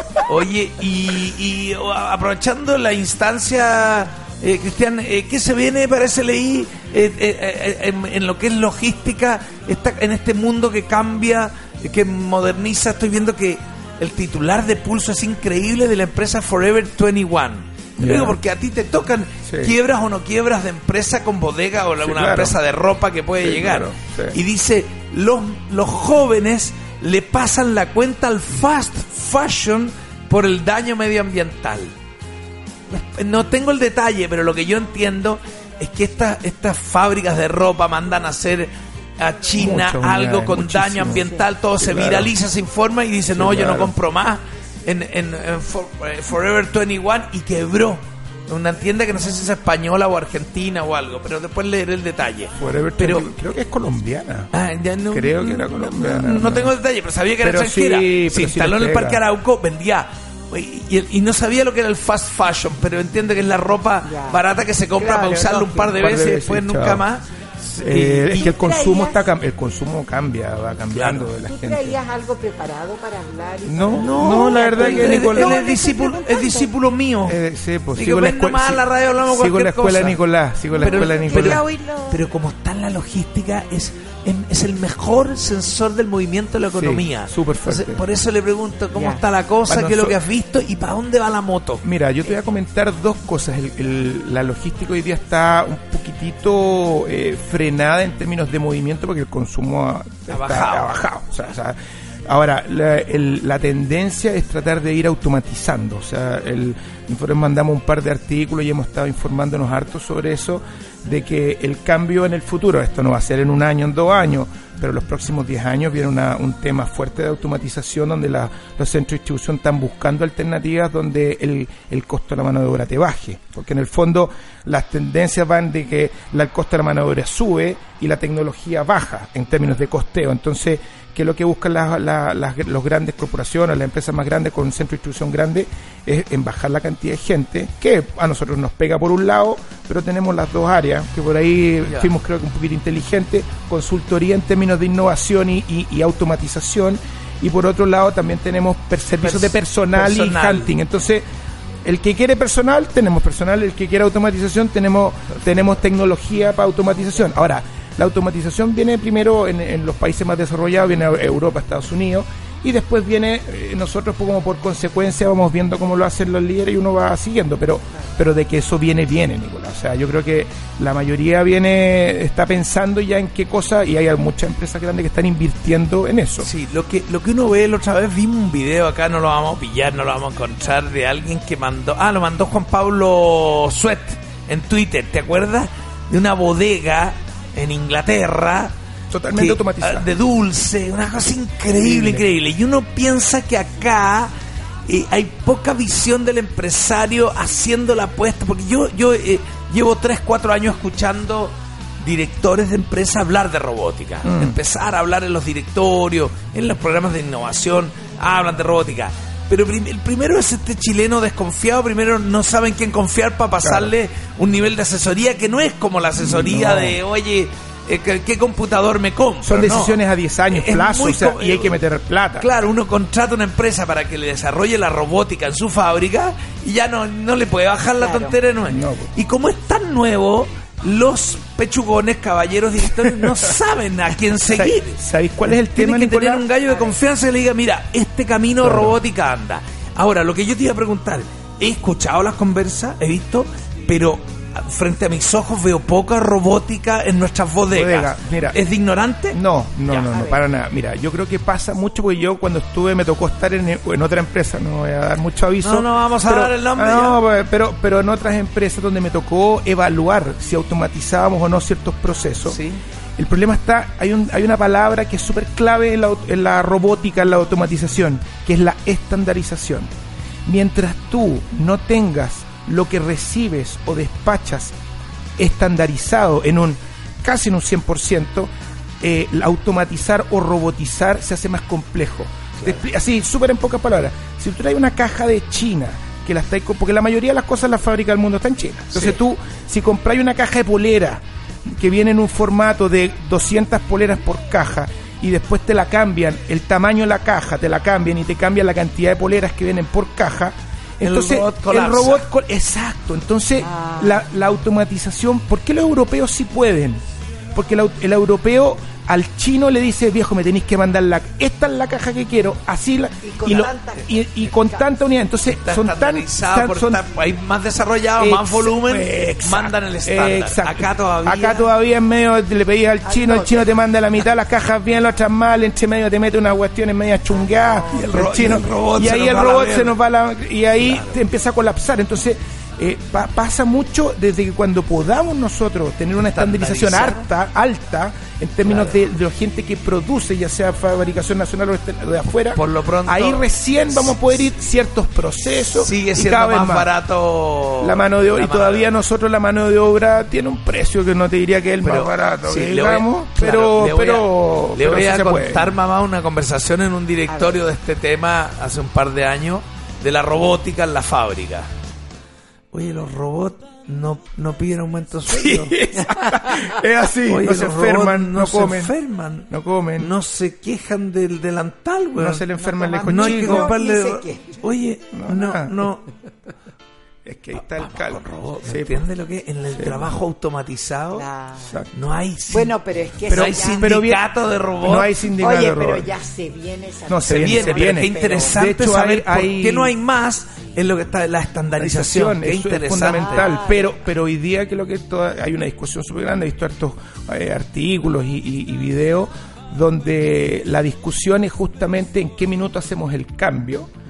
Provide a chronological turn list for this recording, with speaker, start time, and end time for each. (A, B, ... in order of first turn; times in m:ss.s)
0:00.3-0:31.9 A
0:18.0-0:18.4 B
0:19.5-0:19.7 B
0:22.0-0:22.6 B
0:23.4-0:24.4 B
0:32.9-0:53.3 A
0:39.6-0:42.3 B
0:41.1-0:41.4 C
0:43.3-0:43.9 B
0:52.6-0:54.5 B
0:54.5-1:08.5 A
0:55.1-0:56.7 B
0:57.4-0:59.2 B
1:04.0-1:04.4 C
1:05.0-1:06.0 C
1:06.0-1:07.0 B
1:07.8-1:12.0 B
1:08.3-1:09.2 C
1:10.9-1:11.3 A
1:11.4-1:16.7 C
1:13.6-1:15.6 B
1:13.9-1:17.4 A
1:17.2-1:21.6 B
1:17.9-1:20.2 A
1:20.7-1:22.2 C
1:20.8-1:31.8 A
1:26.7-1:28.0 B
1:28.9-1:29.2 C
1:29.7-1:30.2 B
1:31.8-2:31.2 B
1:40.3-1:41.0 A
2:21.8-2:22.1 A
2:29.2-2:30.7 A
2:31.8-2:56.5 B
2:35.4-2:35.6 A
2:56.4-3:08.7 A
3:09.1-3:10.1 B
3:09.3-3:14.3 A
3:11.7-3:12.2 B
3:14.8-3:41.8 A
3:24.2-3:24.6 B
3:33.6-3:33.9 B
3:36.2-3:37.0 B
3:39.4-3:42.5 B
3:42.4-4:10.2 A
3:48.0-3:48.3 C
3:48.7-3:49.1 B
3:53.0-3:53.4 B
3:54.5-3:56.4 B
3:58.6-3:59.0 B
4:07.7-4:08.6 B
4:09.3-4:22.6 B
4:10.0-4:10.4 C
4:15.6-4:17.2 A
4:22.4-4:22.8 A
4:23.2-4:29.9 B
4:30.4-4:34.7 B
4:35.4-4:38.5 B
4:39.0-4:51.2 B
4:48.9-4:49.2 A
4:51.7-5:07.0 B
5:01.0-5:02.3 A
5:03.6-5:04.2 C
5:07.5-5:17.0 B
5:13.2-5:14.9 C
5:15.4-5:21.7 A
5:18.2-5:46.9 B
5:23.0-5:23.7 C
5:27.4-5:28.2 C
5:27.9-5:30.0 A
5:30.8-5:31.2 A
5:36.2-5:37.3 A
5:38.6-5:39.0 A
5:42.5-5:44.2 A
5:45.8-5:48.9 A
5:47.8-5:55.8 B
5:51.8-6:01.7 A
5:57.3-5:57.6 C
6:02.7-6:05.8 A
6:05.3-6:08.9 B
6:07.2-6:12.5 A
6:09.5-6:10.1 B
6:12.2-6:13.7 B
6:12.6-6:14.5 C
6:13.0-6:16.0 A
6:15.1-6:15.8 B
6:17.2-6:19.0 B
6:17.6-6:21.3 A
6:19.8-6:20.1 B
6:21.1-6:21.7 C
6:21.6-6:21.9 B
6:21.9-6:22.7 A
6:22.5-6:23.9 C
6:23.3-6:25.2 A
6:23.3-6:24.2 B
6:24.8-6:26.1 B
6:25.3-6:28.6 C
6:27.1-6:29.9 B
6:27.2-6:33.5 A
6:31.8-6:43.9 B
6:33.0-6:34.0 C